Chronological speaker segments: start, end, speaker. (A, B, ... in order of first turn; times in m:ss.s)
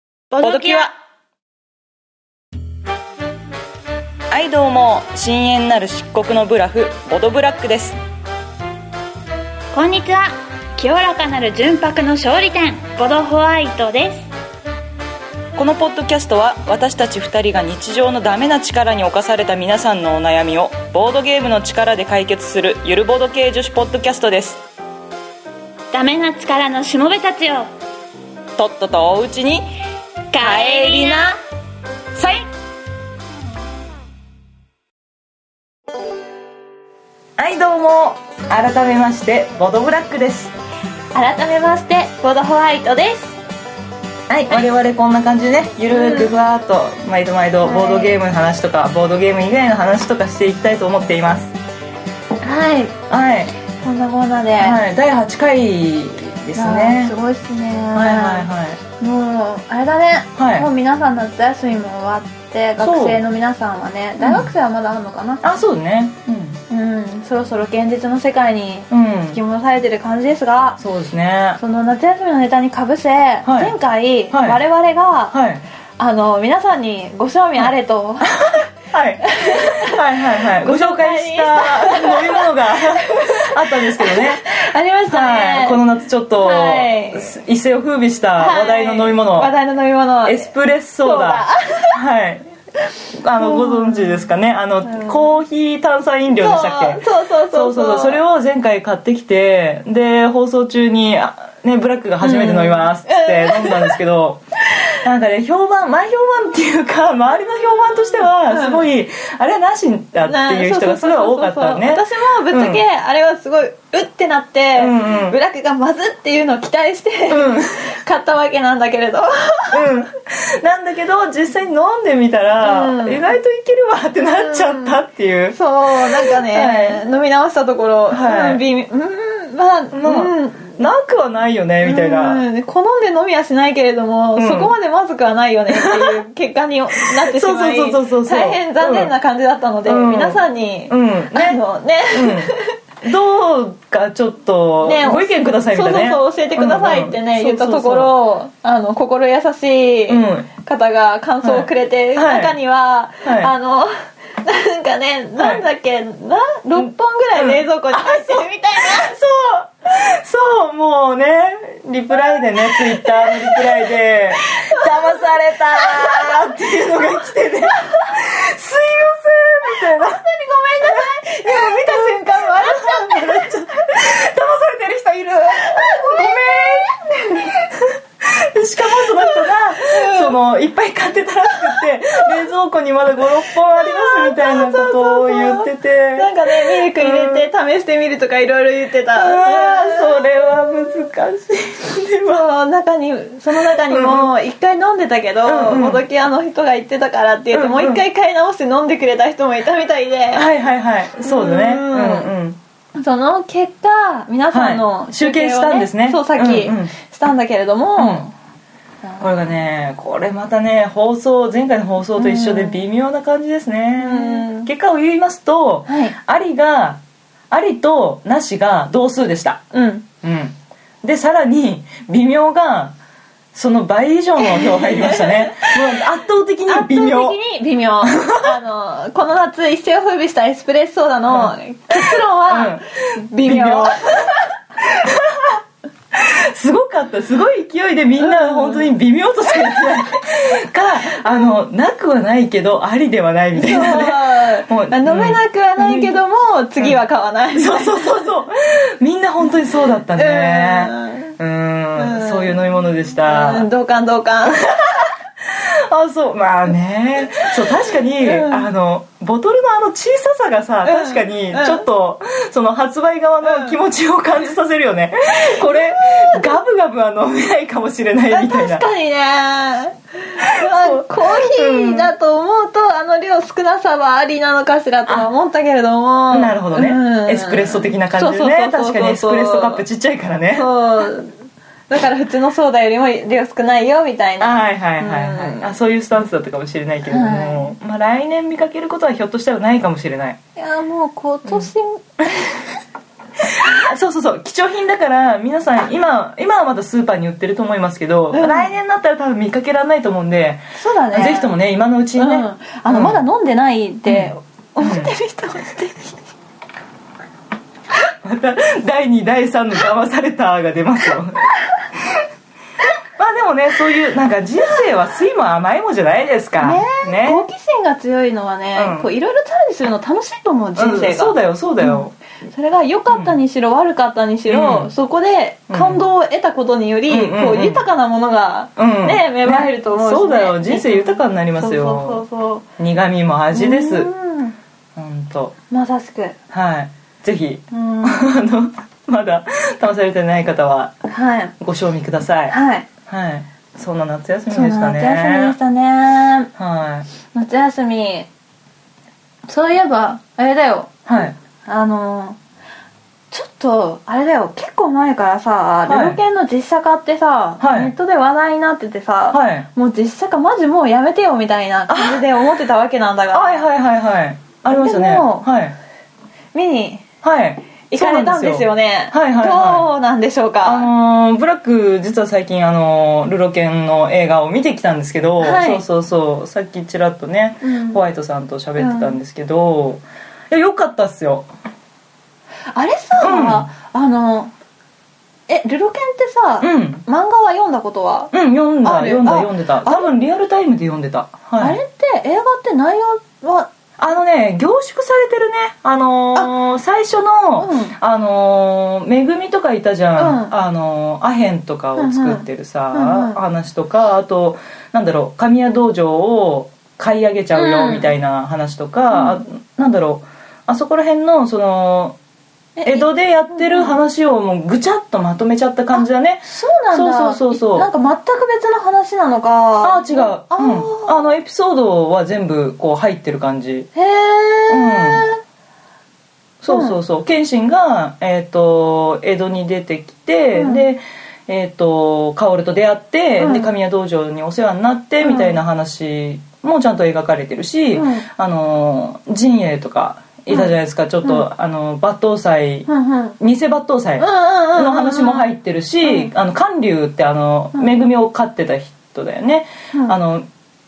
0:00.3-0:00.9 A
0:00.4-0:00.9 B
0:04.3-0:08.0 B
0:09.7-0:14.3 A
0:15.5-0:24.6 B
0:25.9-0:27.7 A
0:28.6-0:29.7 B
0:30.3-0:31.4 A
0:30.4-0:31.3 B
0:32.2-0:32.4 A
0:37.4-0:40.5 B
0:41.1-0:43.4 A
0:44.3-0:51.6 B
0:45.9-0:46.3 A
0:47.6-0:48.2 A
0:52.4-0:53.0 A
0:53.1-0:53.5 B
0:53.8-0:54.8 A
0:54.6-0:57.1 B
0:56.6-1:05.4 A
0:57.9-0:58.8 B
1:00.4-1:00.7 B
1:02.8-1:03.2 B
1:04.2-1:04.5 B
1:05.4-1:06.6 B
1:06.7-1:10.8 A
1:08.9-1:09.4 B
1:10.8-1:11.6 B
1:11.6-1:15.3 A
1:13.4-1:13.7 B
1:14.3-1:14.6 B
1:15.3-1:15.6 B
1:16.0-1:18.7 A
1:18.4-1:24.4 B
1:19.2-1:25.8 A
1:25.1-1:29.5 B
1:26.4-1:27.3 A
1:28.4-1:30.5 A
1:30.2-1:32.4 B
1:31.0-1:32.0 A
1:33.2-1:44.4 B
1:33.4-1:34.3 A
1:34.8-1:35.3 A
1:36.3-1:38.2 A
1:42.2-1:44.0 A
1:45.0-1:52.8 B
1:48.5-1:48.8 A
1:50.2-1:59.9 A
1:54.8-1:55.4 B
1:57.3-1:57.9 B
1:59.7-2:07.0 B
2:02.6-2:03.4 A
2:04.3-2:10.8 A
2:08.1-2:08.6 B
2:09.9-2:12.4 B
2:11.8-2:22.7 A
2:14.4-2:14.7 B
2:15.7-2:16.2 B
2:17.2-2:19.1 B
2:19.8-2:21.6 B
2:22.1-2:28.1 B
2:24.8-2:39.1 A
2:30.1-2:30.5 B
2:31.4-2:32.6 B
2:33.2-2:33.5 B
2:35.4-2:35.6 B
2:36.8-2:50.2 B
2:42.3-2:46.7 A
2:47.7-2:48.1 A
2:49.7-2:53.9 A
2:50.8-3:07.5 B
2:55.6-2:57.6 A
2:58.8-3:00.3 A
3:01.7-3:02.2 A
3:03.7-3:10.3 A
3:09.1-3:12.4 B
3:12.2-3:20.4 A
3:13.6-3:14.3 B
3:15.4-3:16.0 B
3:17.5-3:18.0 B
3:20.3-3:22.6 B
3:21.2-3:22.3 A
3:23.0-3:28.3 A
3:24.5-3:26.9 B
3:28.0-3:28.2 B
3:29.0-3:29.3 A
3:29.2-3:39.6 B
3:32.2-3:32.8 A
3:34.0-3:34.7 A
3:35.9-3:36.2 A
3:39.7-3:40.0 A
3:40.2-3:42.9 B
3:43.5-3:47.4 B
3:44.4-3:46.0 A
3:46.7-3:55.1 A
3:48.0-3:48.5 B
3:51.3-3:54.4 B
3:54.9-3:55.6 B
3:56.1-4:06.2 B
3:58.2-3:58.9 A
3:59.5-4:00.2 A
4:03.5-4:08.2 A
4:07.5-4:13.7 B
4:10.1-4:11.3 A
4:12.0-4:12.6 A
4:13.2-4:14.7 A
4:14.5-4:28.8 B
4:17.7-4:18.6 A
4:20.8-4:21.8 A
4:23.4-4:23.8 A
4:25.4-4:26.5 A
4:28.3-4:39.8 A
4:30.4-4:32.1 B
4:36.3-4:40.7 B
4:40.5-4:41.3 A
4:41.9-4:45.7 A
4:44.4-4:50.4 B
4:47.1-4:47.7 A
4:50.6-4:52.7 A
4:53.4-5:03.2 B
4:58.3-4:58.7 A
5:00.7-5:01.5 A
5:02.2-5:06.2 A
5:04.0-5:05.1 B
5:08.2-5:12.2 B
5:13.2-5:17.4 B
5:16.6-5:32.6 A
5:18.8-5:19.1 B
5:20.8-5:22.1 B
5:24.5-5:24.9 B
5:25.7-5:26.0 B
5:27.1-5:27.8 B
5:28.8-5:32.2 B
5:32.8-5:34.1 B
5:33.5-5:34.6 A
5:35.0-5:35.5 B
5:35.7-5:36.4 A
5:36.5-5:40.9 B
5:37.7-5:38.3 A
5:41.1-5:41.5 A
5:41.6-5:42.6 B
5:42.5-5:42.9 A
5:43.1-5:45.5 B
5:44.5-5:46.5 A
5:46.6-5:47.1 B
5:47.3-5:48.3 A
5:49.5-5:52.4 A
5:51.1-5:51.3 B
5:53.3-6:03.7 A
5:55.8-5:56.2 B
5:57.6-5:57.9 B
5:59.3-5:59.7 B
6:01.9-6:02.4 B
6:03.3-6:05.7 B
6:04.7-6:05.5 A
6:06.5-6:07.0 A
6:07.2-6:09.9 B
6:07.9-6:10.9 A
6:10.6-6:21.5 B
6:15.4-6:15.8 A
6:17.6-6:18.0 A
6:18.8-6:19.1 A
6:22.7-6:24.5 A
6:23.2-6:23.7 B
6:25.5-6:30.1 A
6:26.6-6:27.0 B
6:28.3-6:31.8 B
6:31.6-6:33.7 A
6:34.0-6:52.2 B
6:37.6-6:38.0 A
6:40.2-6:40.5 A
6:42.0-6:43.4 A
6:47.5-6:48.1 A
6:49.1-6:49.4 A
6:52.8-6:53.9 A
6:52.8-6:57.9 B
6:55.9-7:01.3 A
6:59.8-7:03.9 B
7:03.9-7:05.4 A
7:04.7-7:05.2 B
7:06.6-7:22.9 B
7:06.7-7:07.0 A
7:10.5-7:10.8 A
7:13.4-7:13.7 A
7:15.2-7:15.6 A
7:17.9-7:18.3 A
7:22.9-7:23.4 A
7:23.4-7:30.5 B
7:24.2-7:25.5 A
7:26.0-7:26.3 A